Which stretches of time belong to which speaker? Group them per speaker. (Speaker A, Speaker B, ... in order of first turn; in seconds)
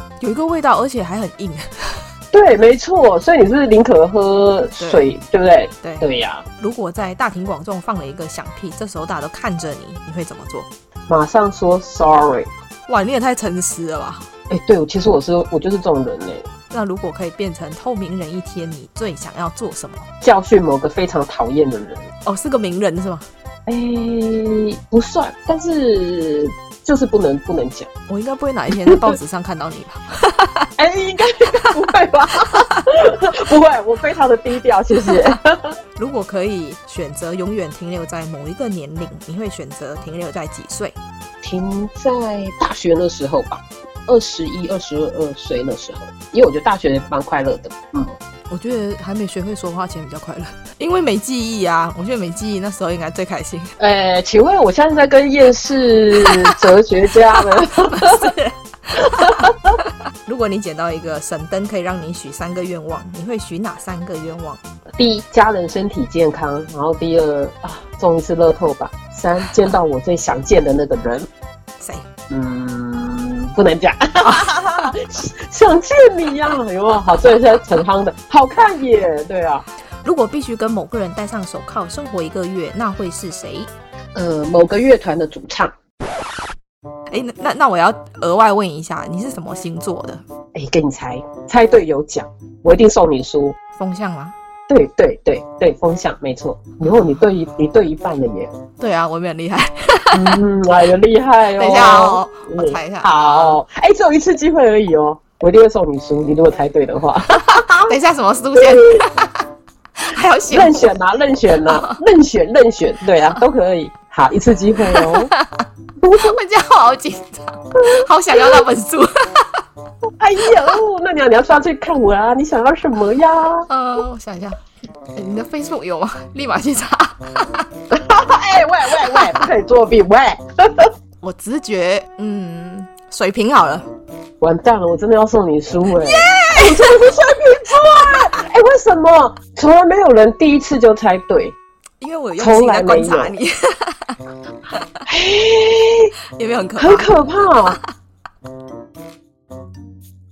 Speaker A: 0.2-2.0, 4.8-5.1, 5.8-6.1, 6.6-10.7, 12.9-14.3, 16.7-20.1, 22.2-23.3, 28.1-30.7, 36.0-41.0, 48.5-53.7, 56.2-56.5, 57.7-64.6, 71.8-72.0, 74.2-74.7, 80.0-83.7, 87.1-90.2, 93.8-94.3, 98.8-100.4, 101.6-103.6, 107.4-109.3, 110.0-110.9, 111.7-112.0, 114.9-119.6, 123.7-127.7, 131.2-133.9, 136.0-136.9, 142.0-144.2, 146.3-147.1
Speaker B: 2.3-6.5, 11.1-12.5, 14.5-16.5, 20.2-22.1, 23.7-27.9, 30.8-35.8, 41.4-48.1, 53.8-58.3, 59.2-59.5, 65.0-71.3, 72.3-79.6, 84.2-85.7, 90.5-93.6, 94.7-98.5, 100.1-108.0, 110.5-115.3, 116.0-116.3, 120.2-123.7, 127.9-130.9, 134.4-141.6, 142.4-143.3, 145.1-146.1, 146.8-147.8